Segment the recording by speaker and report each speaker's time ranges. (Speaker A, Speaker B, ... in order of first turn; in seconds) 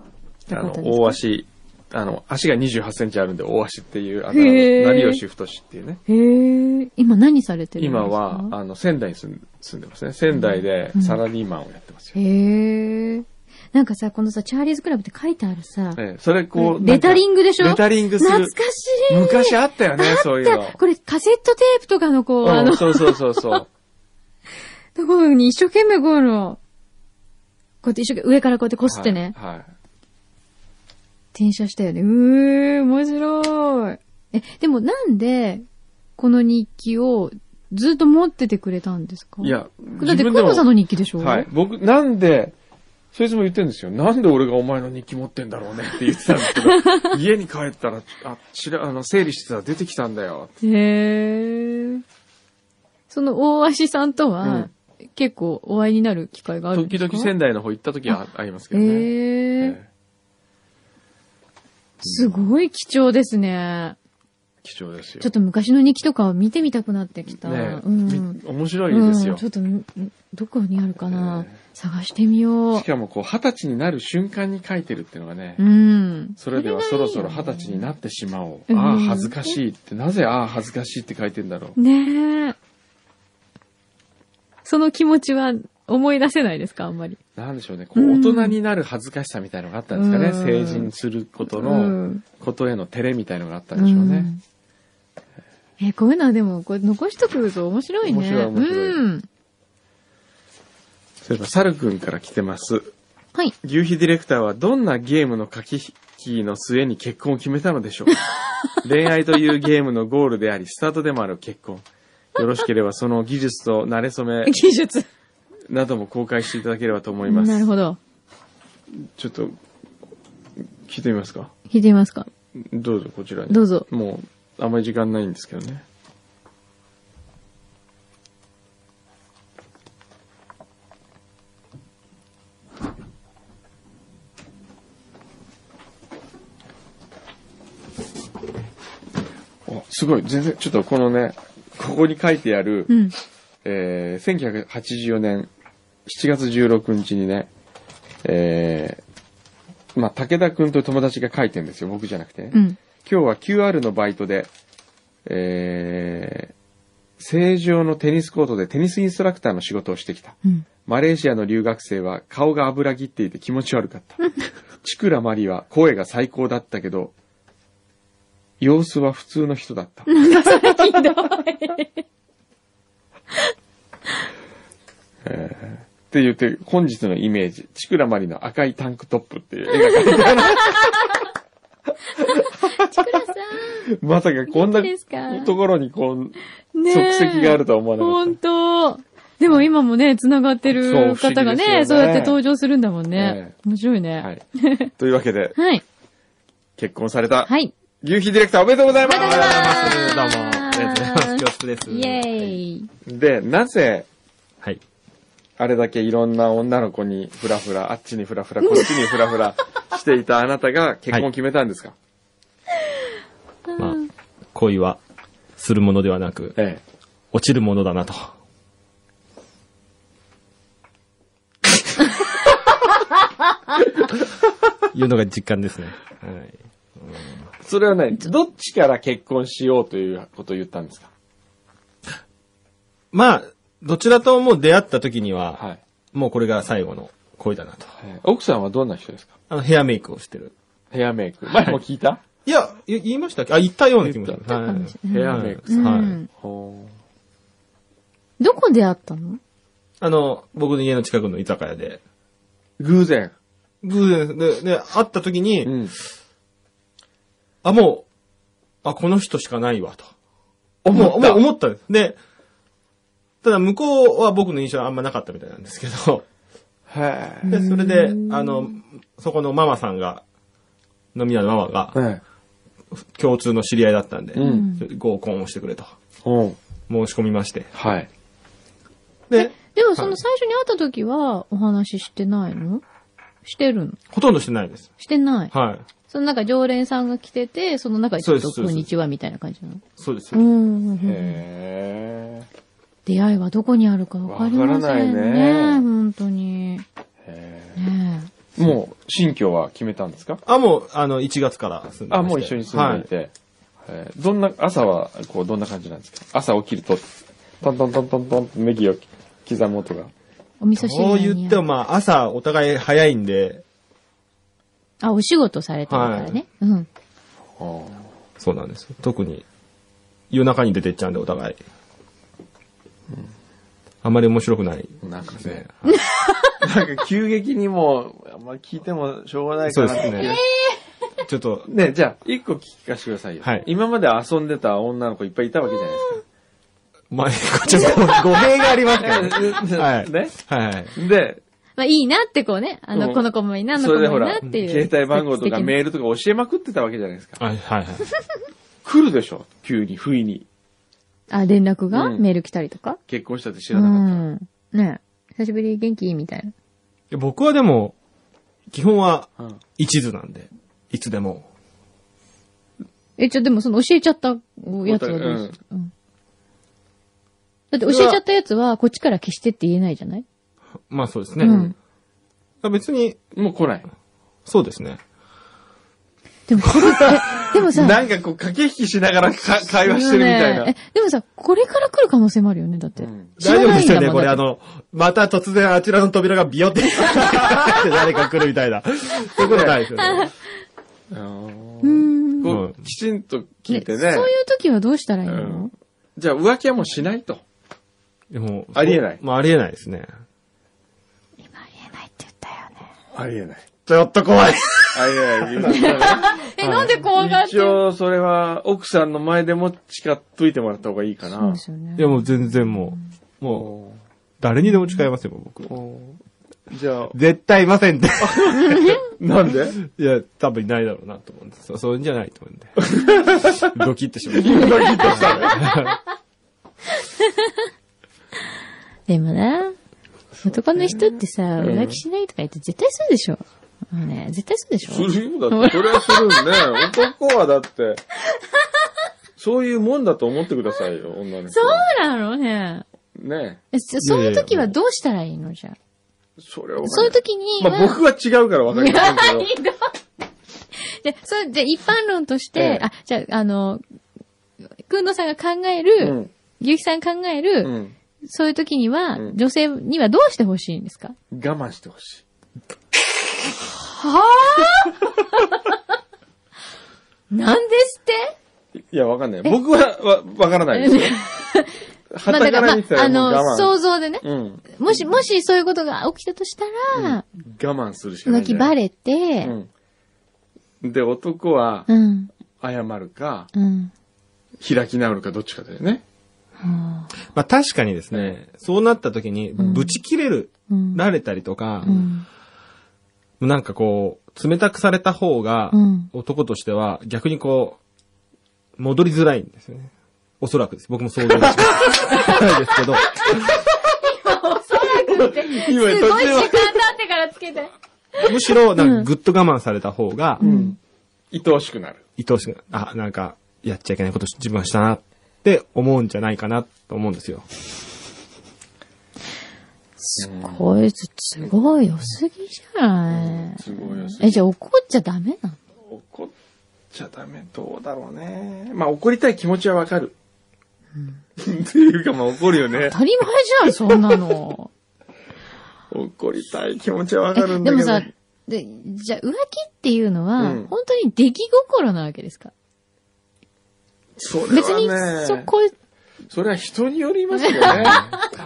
Speaker A: 0.5-1.2, 4.3-5.2, 6.1-8.5, 10.3-11.2, 12.1-16.0, 16.5-23.6, 24.9-26.6, 27.8-29.3, 31.3-35.6, 36.2-41.5, 46.6-47.1, 50.6-52.0, 53.1-57.3, 58.7-59.8, 62.0-64.0, 65.2-72.8, 75.6-77.8, 78.7-79.6, 81.8-82.5, 84.6-87.2, 87.9-88.5, 89.9-90.9, 91.5-92.2, 93.8-94.4, 95.8-99.2, 114.5-115.1, 117.2-118.0, 121.7-122.3, 123.5-123.8, 142.9-143.1, 152.5-152.8, 164.2-164.5, 170.1-172.0, 179.7-180.9, 182.6-183.8, 184.5-185.5, 186.7-194.9, 195.6-195.8, 197.5-197.7, 199.1-202.9, 244.5-246.3, 248.4-249.4, 267.5-268.8, 274.4-274.8, 279.4-282.8, 283.4-284.0, 285.0-285.5, 286.1-291.4, 293.1-296.8, 297.8-298.3, 310.6-311.6, 315.0-316.9, 325.9-326.5, 330.1-330.8, 341.8-345.7, 351.3-353.0, 353.7-356.5, 363.2-365.9, 367.7-370.2, 371.4-371.7, 376.5-378.0, 379.8-384.4, 390.0-390.3, 391.8-392.6, 393.7-395.7, 401.4-402.9, 405.7-407.8, 411.3-413.0, 418.7-419.0, 427.0-427.5, 429.1-429.7, 430.4-436.9, 441.5-442.8, 443.7-445.7, 446.8-448.0, 448.7-450.0, 450.7-453.8, 454.8-457.7, 458.2-461.1, 463.7-465.5, 467.3-468.3, 470.7-477.2, 478.2-479.5, 481.9-482.3, 483.5-483.9, 486.6-487.1, 489.6-490.0, 490.7-491.0, 491.9-492.2, 495.7-496.1, 501.8-509.1, 510.4-510.8, 520.0-525.6, 532.9-534.7, 537.4-542.5, 544.5-545.7, 547.6-548.1
Speaker B: 0.5-6.0, 7.8-12.2, 15.9-18.5, 19.1-20.8, 22.4-23.7, 28.9-29.7, 39.4-40.7, 41.2-42.5, 43.1-50.5, 54.4-54.7, 56.7-59.9, 62.0-62.4, 64.6-65.3, 67.4-69.4, 71.0-71.5, 72.7-75.6, 76.4-81.8, 87.3-94.3, 98.0-99.0, 101.2-102.9, 103.6-108.2, 108.8-114.6, 115.7-117.7, 119.0-119.6, 120.8-121.5, 122.5-125.8, 139.7-142.9, 143.6-145.5, 146.0-147.5, 148.2-149.0, 149.9-154.5, 155.2-156.5, 157.2-164.2, 164.8-167.1, 168.6-170.7, 175.2-181.0, 182.2-183.1, 183.7-186.3, 186.9-188.4, 190.7-192.4, 193.2-193.5, 195.0-195.6, 196.8-199.9, 203.0-204.1, 205.6-211.9, 216.6-216.8, 227.6-231.1, 238.0-239.3, 240.9-242.2, 244.0-244.4, 245.1-246.9, 252.8-253.3, 255.6-255.9, 260.8-261.4, 266.9-267.6, 271.9-272.2, 274.3-274.6, 276.2-276.6, 277.7-278.1, 291.0-292.5, 294.2-295.9, 297.2-297.8, 298.6-300.4, 302.1-303.3, 303.8-310.1, 317.6-318.1, 325.0-325.6, 326.6-330.4, 331.7-336.2, 338.9-340.4, 340.9-341.4, 342.9-347.4, 348.8-350.5, 351.9-352.2, 353.1-354.2, 364.8-365.5, 367.8-368.2, 371.4-371.7, 373.3-373.9, 377.7-380.7, 383.0-383.3, 389.4-389.9, 391.1-394.3, 395.2-397.4, 398.7-399.2, 403.1-403.7, 404.9-406.5, 407.1-411.6, 413.5-414.0, 415.7-416.1, 416.7-417.1, 418.2-419.8, 422.8-425.6, 430.4-432.0, 434.8-438.0, 439.4-441.9, 443.1-443.6, 446.4-449.5, 452.5-452.9, 456.0-456.3, 457.6-457.9, 461.3-462.2, 468.8-471.2, 472.1-475.2, 476.9-478.7, 479.4-479.7, 480.8-481.9, 482.6-483.5, 484.6-486.0, 489.6-489.9, 501.4-501.7, 504.8-506.8, 510.4-510.8, 511.3-512.0, 520.2-520.6, 523.1-524.4, 525.9-526.3, 526.9-530.1, 531.4-533.0, 533.9-534.1, 535.9-538.1, 540.4-540.7, 544.2-545.5, 546.3-548.2
Speaker C: 199.1-202.6, 214.5-215.0, 215.6-216.6, 217.3-218.3, 224.9-227.5, 233.1-237.9, 239.5-240.5, 242.4-246.2, 250.0-252.0, 253.8-255.8, 257.6-258.1, 258.8-260.1, 260.9-262.2, 263.4-266.2, 267.5-270.2, 271.1-272.0, 273.0-275.9, 276.9-277.7, 279.3-280.2, 284.1-284.9, 285.5-285.8, 288.2-288.9, 290.0-290.4, 300.4-303.1, 310.8-313.6, 315.9-316.4, 318.4-319.4, 320.3-321.6, 324.0-325.9, 329.7-330.4, 331.2-331.7, 337.1-340.9, 347.4-348.1, 357.1-357.9, 358.7-361.5, 370.9-371.7, 372.6-373.2, 374.4-375.0, 376.6-377.2, 383.4-390.3, 392.5-392.7, 398.3-400.1, 403.8-405.9, 406.6-406.9, 412.0-413.7, 414.4-415.8, 417.1-419.0, 419.8-422.9, 423.6-425.9, 444.0-444.7, 487.3-492.1, 493.4-497.8, 498.8-503.3, 508.2-510.4, 512.2-517.4